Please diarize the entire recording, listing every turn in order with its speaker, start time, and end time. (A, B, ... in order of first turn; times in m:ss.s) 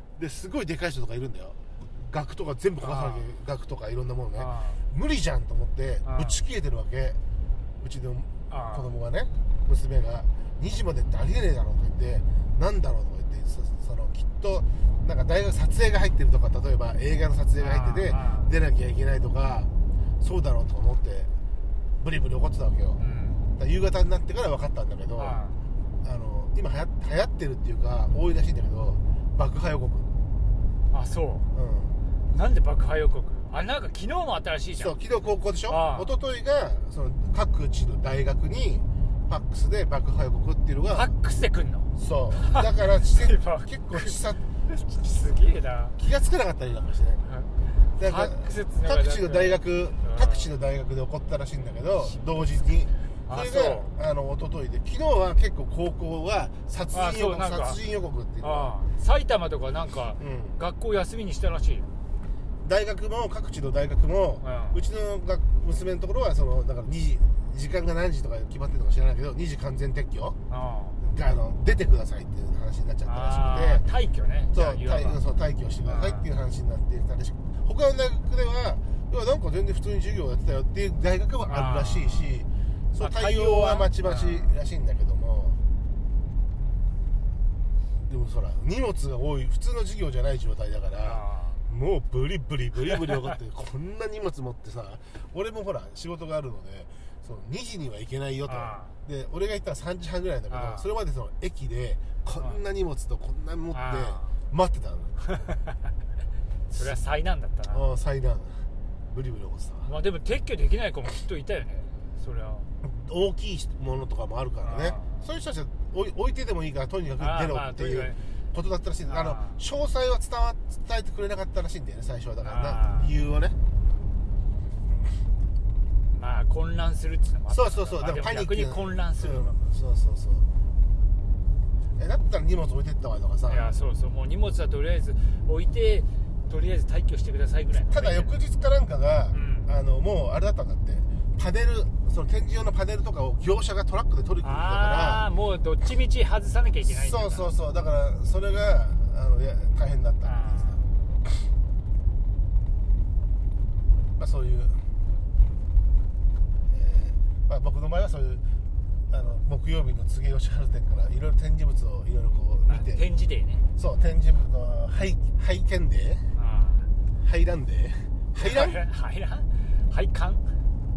0:00.2-0:07.2 A
0:02.8-0:03.3 B
0:04.4-0:04.8 B
0:06.0-0:06.4 B
0:07.8-0:21.3 A
0:08.5-0:08.9 B
0:17.6-0:18.5 B
0:22.0-0:23.0 A
0:23.0-0:23.5 B
0:23.6-0:25.4 A
0:25.2-0:25.6 B
0:26.0-0:30.1 A
0:30.9-0:31.5 B
0:31.5-0:31.9 A
0:32.3-0:35.0 B
0:34.8-0:41.1 A
0:35.7-0:36.1 B
0:40.9-0:46.0 B
0:42.0-0:44.4 A
0:46.0-0:47.2 A
0:47.2-0:50.5 B
0:48.0-0:58.8 A
0:52.1-0:52.5 B
0:53.2-0:53.9 B
0:56.9-0:57.8 B
0:58.4-1:01.9 B
1:00.2-1:00.6 A
1:02.6-1:10.4 A
1:04.4-1:04.8 B
1:10.5-1:11.0 B
1:11.0-1:13.8 A
1:13.0-1:15.2 B
1:14.5-1:25.6 A
1:15.8-1:16.3 B
1:21.4-1:22.3 B
1:23.0-1:24.6 B
1:28.1-1:45.2 A
1:31.0-1:31.6 B
1:38.5-1:39.0 B
1:40.5-1:40.8 B
1:43.7-1:44.3 B
1:46.7-1:47.8 B
1:47.7-1:49.9 A
1:49.8-1:52.7 B
1:52.8-2:03.6 A
1:54.6-1:55.3 B
1:57.2-1:58.2 B
1:59.0-1:59.6 B
2:02.4-2:03.1 B
2:06.1-2:09.6 B
2:07.5-2:10.4 A
2:12.0-2:13.7 A
2:13.5-2:18.4 B
2:17.9-2:25.2 A
2:19.3-2:19.7 B
2:24.4-2:27.5 B
2:26.8-2:30.8 A
2:30.2-2:30.8 B
2:34.2-2:34.8 A
2:36.7-2:38.4 A
2:39.1-2:43.0 A
2:42.7-2:43.6 B
2:43.8-2:46.3 A
2:46.3-2:46.9 B
2:47.2-2:48.8 A
2:48.4-2:50.5 B